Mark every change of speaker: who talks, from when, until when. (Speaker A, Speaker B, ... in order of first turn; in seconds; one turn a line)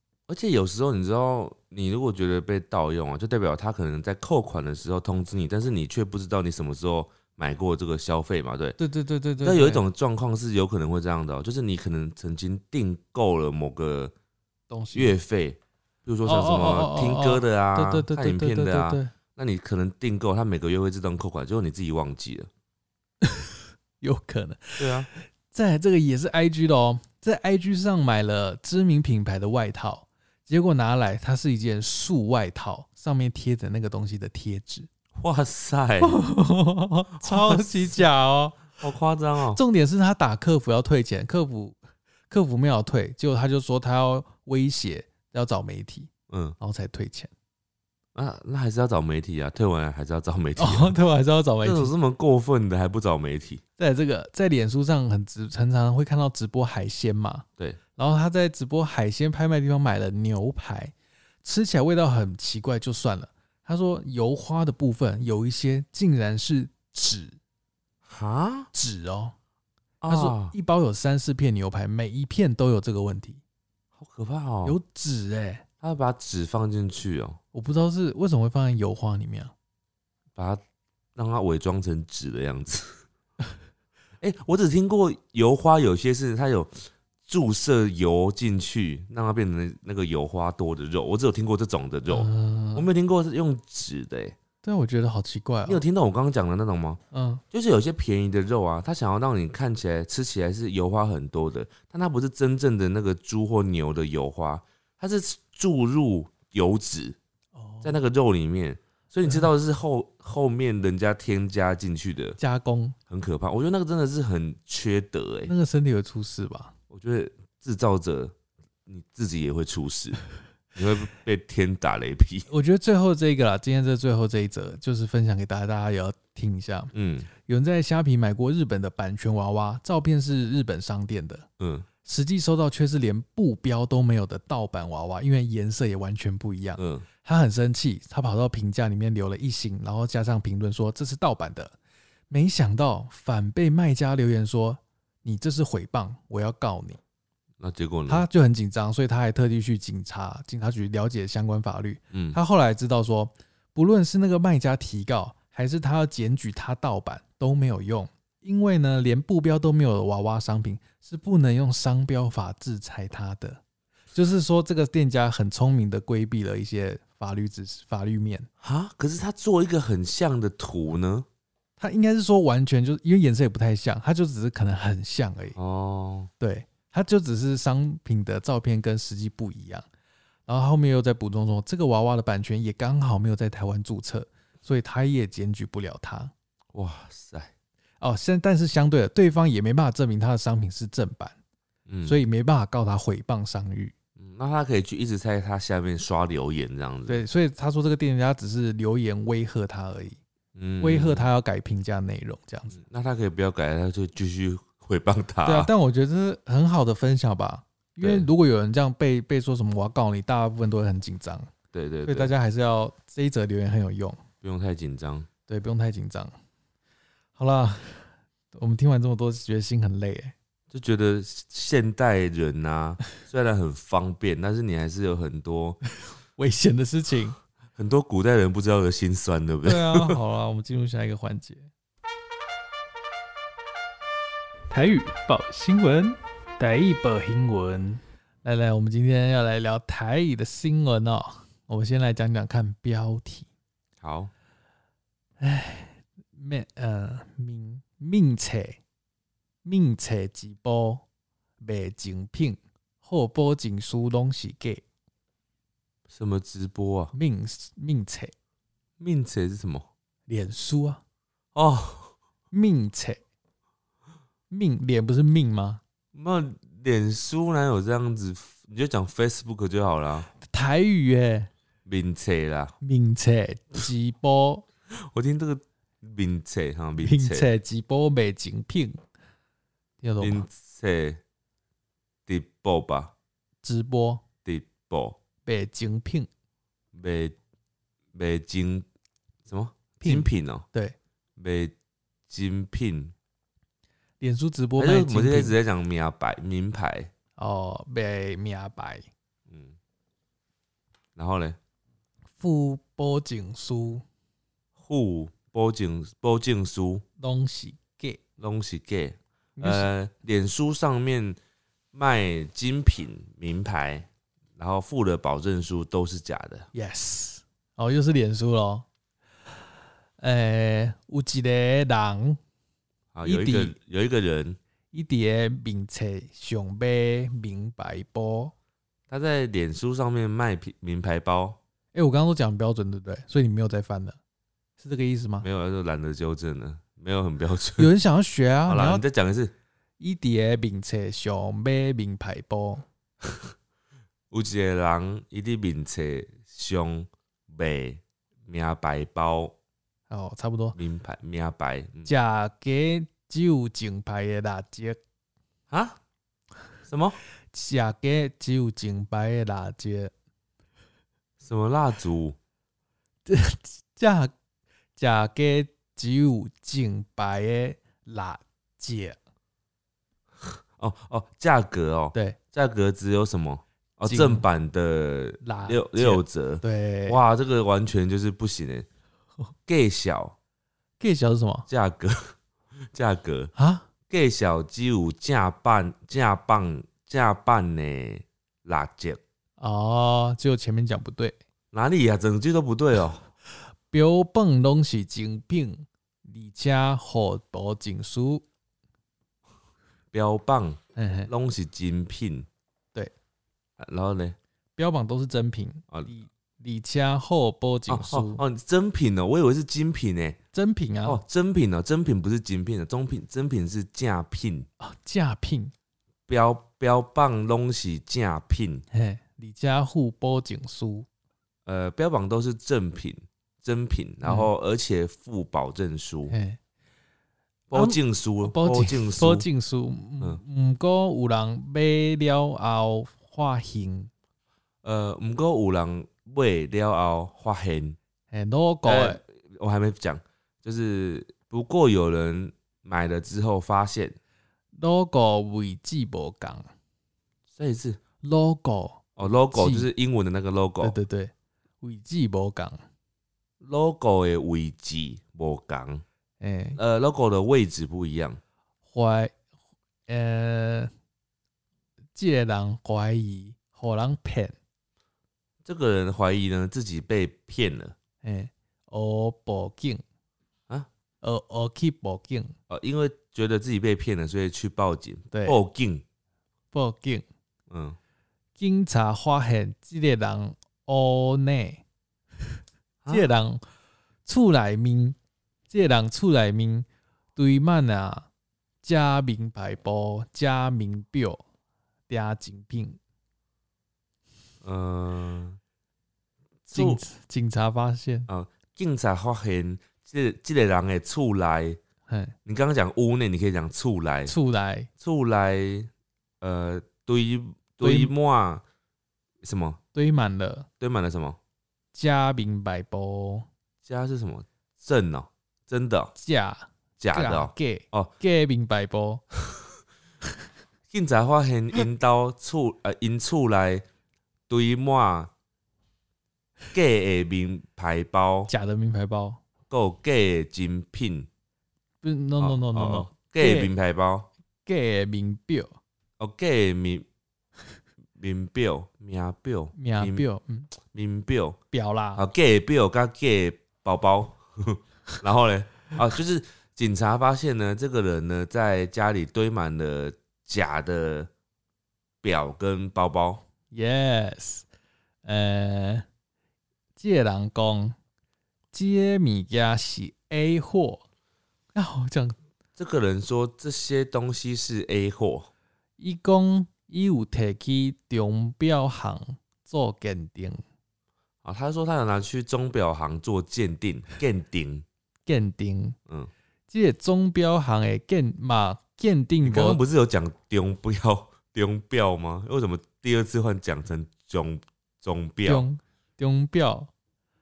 Speaker A: 0.3-8.8
Speaker B: 8.8-9.8
Speaker A: 9.4-14.1
Speaker B: 14.7-15.1
Speaker A: 14.9-22.5
Speaker B: 16.2-19.1
Speaker B: 23.2-34.9
Speaker A: 24.8-25.1
Speaker A: 35.1-36.1
Speaker B: 36.0-38.8
Speaker A: 37.2-38.0
Speaker A: 38.8-39.6
Speaker B: 39.5-41.8
Speaker B: 42.3-47.3
Speaker A: 46.3-46.6
Speaker A: 48.1-51.0
Speaker B: 50.6-51.9
Speaker A: 51.6-53.6
Speaker B: 53.8-67.4
Speaker A: 68.0-68.7
Speaker B: 68.7-69.3
Speaker A: 70.0-70.5
Speaker B: 70.1-73.4
Speaker A: 74.0-74.8
Speaker B: 74.6-75.6
Speaker A: 75.8-77.4
Speaker B: 77.5-79.5
Speaker A: 80.3-80.6
Speaker A: 81.2-83.0
Speaker A: 84.2-94.3
Speaker B: 92.1-92.9
Speaker B: 94.6-95.8
Speaker A: 95.7-97.0
Speaker B: 97.1-97.4
Speaker A: 97.5-107.2
Speaker B: 107.5-108.0
Speaker A: 107.8-112.4
Speaker B: 112.4-113.0
Speaker A: 113.1-115.5
Speaker B: 115.5-116.7
Speaker A: 116.9-118.3
Speaker A: 118.8-120.2
Speaker A: 120.7-122.5
Speaker B: 122.5-126.9
Speaker A: 126.9-127.3
Speaker B: 127.5-131.5
Speaker A: 131.6-131.9
Speaker B: 132.0-141.8
Speaker A: 136.8-137.1
Speaker B: 142.3-147.0
Speaker A: 147.6-148.3
Speaker B: 148.1-163.6
Speaker A: 152.1-152.4
Speaker B: 164.1-168.5
Speaker A: 168.6-171.3
Speaker B: 171.8-175.6
Speaker A: 175.6-176.3
Speaker B: 176.4-179.9
Speaker B: 180.5-186.3
Speaker A: 186.7-187.5
Speaker B: 188.0-191.4
Speaker A: 191.9-192.2
Speaker B: 192.0-193.9
Speaker A: 194.2-197.2
Speaker B: 197.1-200.2
Speaker A: 200.5-201.3
Speaker B: 200.8-202.8
Speaker A: 202.7-205.7
Speaker B: 205.4-211.5
Speaker A: 208.0-208.3
Speaker A: 211.7-212.3
Speaker B: 212.1-214.2
Speaker A: 214.4-215.3
Speaker B: 215.5-216.3
Speaker B: 217.3-220.3
Speaker A: 220.7-225.8
Speaker B: 226.4-227.4
Speaker A: 227.7-230.2
Speaker B: 229.6-231.7
Speaker B: 234.7-243.5
Speaker A: 244.0-244.3
Speaker B: 245.4-248.8
Speaker B: 249.6-251.0
Speaker B: 251.6-254.8
Speaker A: 256.1-257.1
Speaker B: 257.1-258.3
Speaker A: 259.0-259.9
Speaker B: 260.3-261.0
Speaker A: 261.5-262.1
Speaker B: 262.5-263.2
Speaker B: 264.5-265.8
Speaker A: 266.1-270.3
Speaker B: 270.4-271.5
Speaker A: 271.9-272.7
Speaker B: 272.8-274.6
Speaker A: 274.9-277.5
Speaker B: 277.0-279.0
Speaker B: 280.0-280.4
Speaker A: 280.2-281.2
Speaker A: 282.3-283.1
Speaker B: 283.6-284.2
Speaker A: 284.4-285.2
Speaker B: 285.4-286.3
Speaker A: 286.9-287.4
Speaker A: 288.1-288.9
Speaker A: 289.5-290.6
Speaker B: 290.0-290.9
Speaker A: 291.4-291.7
Speaker A: 292.3-293.1
Speaker B: 294.2-295.6
Speaker A: 294.8-297.1
Speaker B: 297.4-299.1
Speaker A: 299.5-299.8
Speaker A: 301.1-301.6
Speaker B: 302.4-304.0
Speaker A: 304.8-307.0
Speaker B: 307.2-308.2
Speaker A: 308.4-311.4
Speaker B: 309.6-309.9
Speaker A: 311.9-316.7
Speaker B: 316.7-318.9
Speaker B: 320.2-322.4
Speaker A: 323.1-324.6
Speaker B: 323.2-323.8
Speaker B: 324.9-328.5
Speaker A: 329.1-331.6
Speaker B: 331.9-334.2
Speaker B: 334.8-335.5
Speaker A: 335.4-337.9
Speaker B: 337.8-339.0
Speaker A: 338.7-339.5
Speaker B: 340.0-342.8
Speaker A: 343.2-343.5
Speaker A: 344.3-349.5
Speaker B: 350.1-350.8
Speaker A: 350.8-352.1
Speaker B: 352.0-355.0
Speaker A: 355.7-356.0
Speaker A: 356.9-357.2
Speaker B: 357.5-360.1
Speaker A: 361.4-362.4
Speaker B: 363.2-364.3
Speaker B: 365.0-369.2
Speaker A: 370.4-378.9
Speaker B: 374.1-374.4
Speaker B: 375.4-377.2
Speaker A: 379.7-380.3
Speaker B: 381.0-381.7
Speaker A: 381.7-382.3
Speaker A: 382.9-383.5
Speaker B: 383.6-383.9
Speaker A: 384.1-389.2
Speaker B: 389.6-391.4
Speaker A: 391.7-393.2
Speaker B: 393.9-398.4
Speaker A: 400.1-402.5
Speaker B: 400.9-401.3
Speaker A: 403.8-404.4
Speaker B: 404.8-408.4
Speaker A: 407.9-410.4
Speaker B: 410.5-411.2
Speaker A: 411.0-414.7
Speaker B: 414.8-415.7
Speaker A: 416.3-418.8
Speaker B: 418.9-421.1
Speaker A: 421.6-426.3
Speaker B: 424.2-424.5
Speaker B: 426.3-426.6
Speaker A: 427.7-429.5
Speaker B: 427.7-434.1
Speaker A: 434.8-438.0
Speaker B: 438.3-439.2
Speaker A: 438.9-444.2
Speaker B: 444.8-446.7
Speaker A: 447.6-448.0
Speaker B: 448.2-449.9
Speaker A: 449.2-450.9
Speaker B: 450.8-452.8
Speaker A: 453.6-456.0
Speaker B: 456.4-456.8
Speaker A: 456.8-458.4
Speaker B: 458.9-459.3
Speaker B: 460.1-460.9
Speaker B: 462.1-464.6
Speaker A: 465.6-467.9
Speaker B: 468.2-470.0
Speaker B: 471.2-472.5
Speaker A: 472.7-476.0
Speaker B: 475.3-475.6
Speaker B: 476.7-477.2
Speaker A: 477.7-478.0
Speaker B: 478.6-481.8
Speaker A: 483.0-483.3
Speaker B: 483.1-483.6
Speaker B: 484.2-485.2
Speaker B: 485.7-488.3
Speaker B: 488.8-491.4
Speaker B: 492.1-493.0
Speaker A: 494.6-495.6
Speaker A: 496.7-497.0
Speaker B: 496.7-498.3
Speaker A: 498.3-501.8
Speaker B: 502.1-502.3
Speaker A: 502.4-504.3
Speaker B: 504.2-504.9
Speaker A: 505.0-505.9
Speaker A: 506.4-508.6
Speaker B: 507.8-508.1
Speaker A: 509.4-509.8
Speaker B: 509.9-510.7
Speaker A: 510.8-511.4
Speaker B: 511.9-513.5
Speaker A: 513.8-516.1
Speaker B: 516.1-519.2
Speaker A: 517.0-518.1
Speaker A: 520.9-523.8
Speaker A: 524.5-525.3
Speaker A: 526.7-528.5
Speaker B: 528.5-529.4
Speaker A: 529.7-531.3
Speaker B: 532.0-533.7
Speaker A: 532.4-534.3
Speaker B: 534.6-535.7
Speaker A: 536.2-537.0
Speaker A: 538.1-540.2
Speaker B: 539.8-540.7
Speaker A: 540.8-541.6
Speaker B: 541.7-542.2
Speaker A: 542.1-551.3
Speaker A: 552.2-553.4
Speaker B: 553.7-554.6
Speaker B: 555.2-556.1
Speaker B: 557.0-558.0
Speaker B: 558.7-561.0
Speaker B: 561.7-562.4
Speaker A: 562.8-565.5
Speaker B: 566.0-570.6
Speaker A: 571.4-574.8
Speaker B: 575.3-576.0
Speaker B: 576.7-579.8
Speaker A: 579.4-585.6
Speaker B: 585.4-586.9